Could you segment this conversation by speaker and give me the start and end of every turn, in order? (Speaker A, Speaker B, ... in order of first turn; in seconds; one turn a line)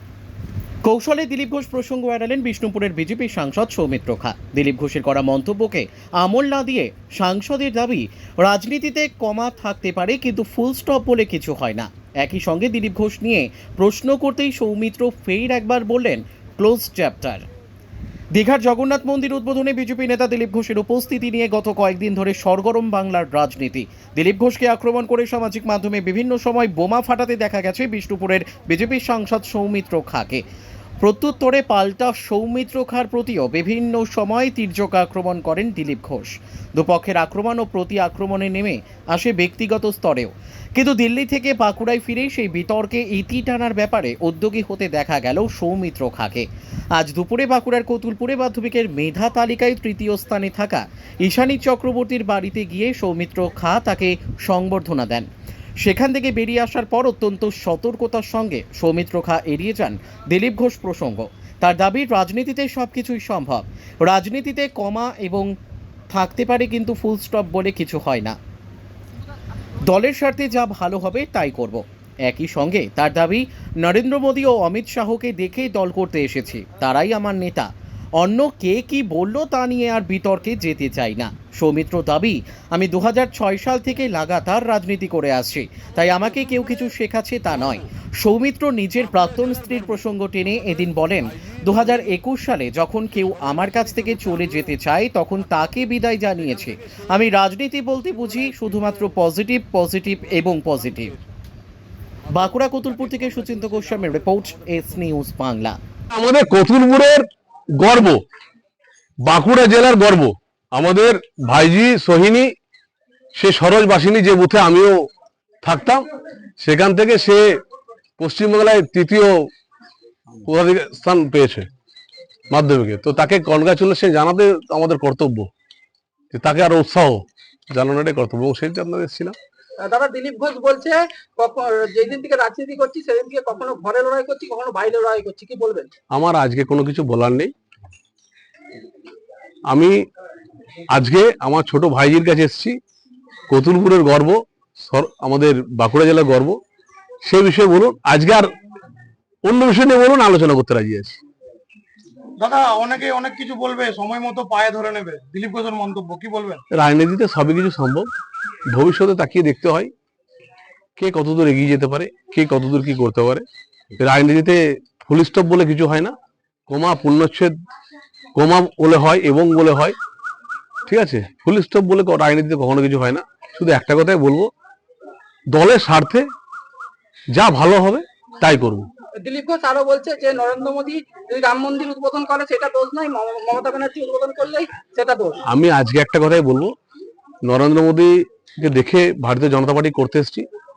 Speaker A: 0.8-17.4
Speaker A: 18.3-30.4
Speaker A: 31.0-55.3
Speaker A: 55.8-65.5
Speaker A: 66.1-68.4
Speaker A: 69.8-101.1
Speaker A: 102.3-105.8
Speaker B: 106.1-107.2
Speaker B: 107.8-108.2
Speaker B: 109.2-112.5
Speaker B: 113.3-115.0
Speaker B: 115.6-116.0
Speaker B: 116.6-117.4
Speaker B: 118.2-119.5
Speaker B: 120.4-121.7
Speaker B: 122.5-125.5
Speaker B: 126.3-129.3
Speaker C: 129.8-135.9
Speaker B: 136.1-137.5
Speaker B: 139.7-140.0
Speaker B: 140.9-142.8
Speaker B: 143.5-146.6
Speaker B: 147.2-148.5
Speaker B: 149.4-151.2
Speaker D: 152.4-156.6
Speaker B: 156.7-158.1
Speaker B: 158.7-159.9
Speaker B: 161.0-163.4
Speaker B: 164.0-166.1
Speaker B: 166.7-167.5
Speaker B: 168.3-169.9
Speaker B: 170.9-174.5
Speaker B: 175.5-176.2
Speaker B: 177.3-178.9
Speaker C: 179.2-185.4
Speaker B: 185.5-186.7
Speaker B: 187.4-190.4